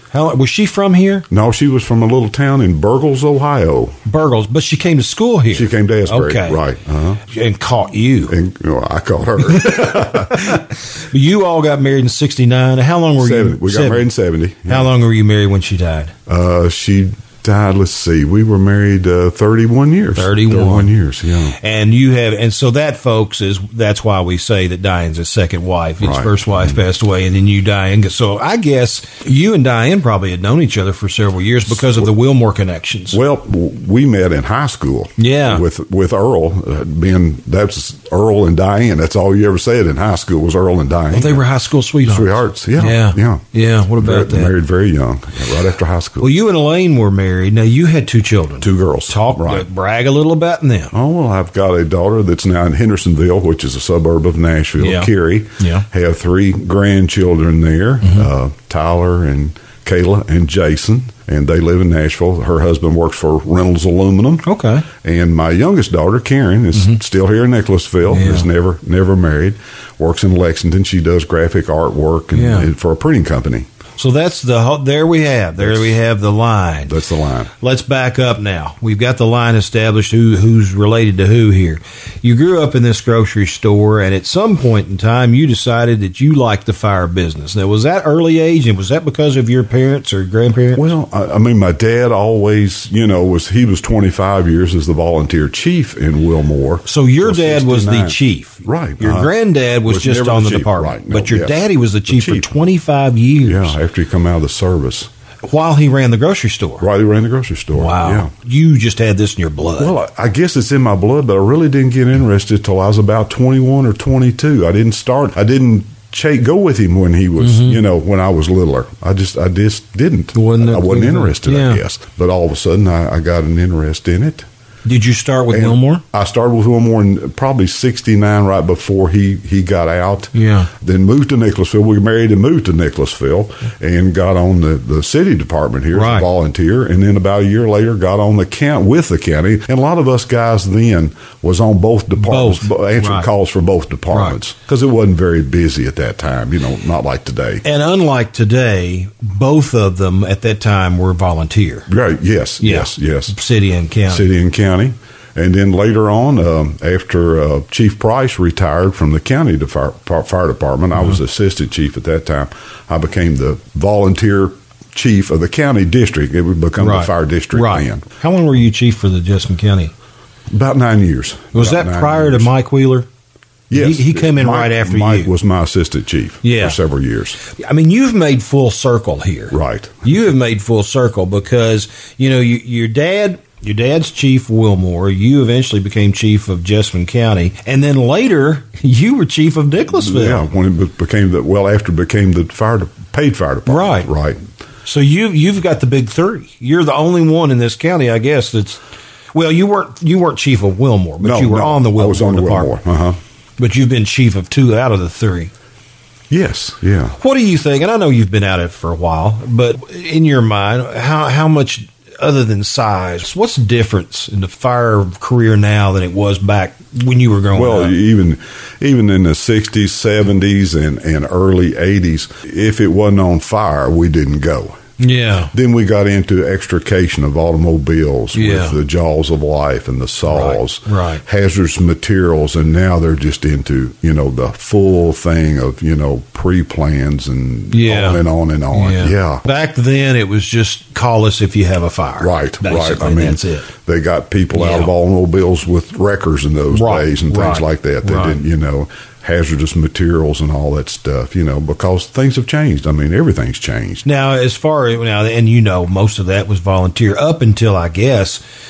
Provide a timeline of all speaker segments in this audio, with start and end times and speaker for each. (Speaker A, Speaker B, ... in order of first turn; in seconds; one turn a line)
Speaker A: 0.1-1.3
Speaker B: 1.3-4.0
Speaker A: 4.1-6.6
Speaker B: 5.5-7.2
Speaker A: 7.3-8.3
Speaker B: 8.3-10.6
Speaker A: 9.7-14.1
Speaker B: 13.2-14.9
Speaker A: 14.7-16.1
Speaker B: 16.3-21.6
Speaker A: 20.2-20.9
Speaker A: 21.6-33.2
Speaker B: 26.0-26.8
Speaker B: 33.1-41.4
Speaker A: 35.2-35.6
Speaker A: 41.1-44.5
Speaker B: 42.0-43.5
Speaker B: 44.0-46.3
Speaker A: 46.2-50.9
Speaker B: 48.6-49.7
Speaker B: 50.9-73.7
Speaker A: 54.8-55.9
Speaker A: 64.5-64.9
Speaker A: 68.1-68.5
Speaker A: 72.3-72.7
Speaker A: 74.0-77.0
Speaker B: 75.6-76.0
Speaker B: 76.9-77.5
Speaker A: 77.6-90.8
Speaker B: 90.8-102.5
Speaker A: 96.9-103.8
Speaker B: 103.5-105.1
Speaker A: 105.4-106.8
Speaker B: 106.8-108.3
Speaker A: 107.8-110.0
Speaker B: 109.8-124.5
Speaker A: 117.4-117.8
Speaker A: 120.3-121.8
Speaker A: 124.8-126.0
Speaker B: 125.5-147.6
Speaker A: 130.3-130.7
Speaker A: 135.9-136.3
Speaker A: 142.2-143.3
Speaker A: 144.1-144.4
Speaker A: 147.6-151.9
Speaker B: 151.9-153.3
Speaker A: 152.6-154.3
Speaker B: 154.1-168.1
Speaker A: 166.8-169.9
Speaker B: 170.5-172.5
Speaker A: 171.5-173.1
Speaker B: 173.7-177.4
Speaker A: 173.7-175.3
Speaker A: 176.4-176.8
Speaker A: 177.5-190.4
Speaker B: 179.5-180.0
Speaker B: 189.9-194.4
Speaker A: 193.7-194.1
Speaker A: 194.8-198.8
Speaker A: 199.3-202.7
Speaker B: 201.2-203.2
Speaker A: 203.6-205.5
Speaker B: 206.3-207.2
Speaker A: 207.2-217.9
Speaker B: 217.5-224.8
Speaker A: 225.0-225.5
Speaker B: 225.5-239.4
Speaker A: 228.3-228.8
Speaker A: 230.3-231.2
Speaker A: 237.7-238.2
Speaker A: 238.7-243.7
Speaker B: 242.2-254.0
Speaker A: 244.5-244.9
Speaker A: 246.7-248.4
Speaker A: 254.0-258.4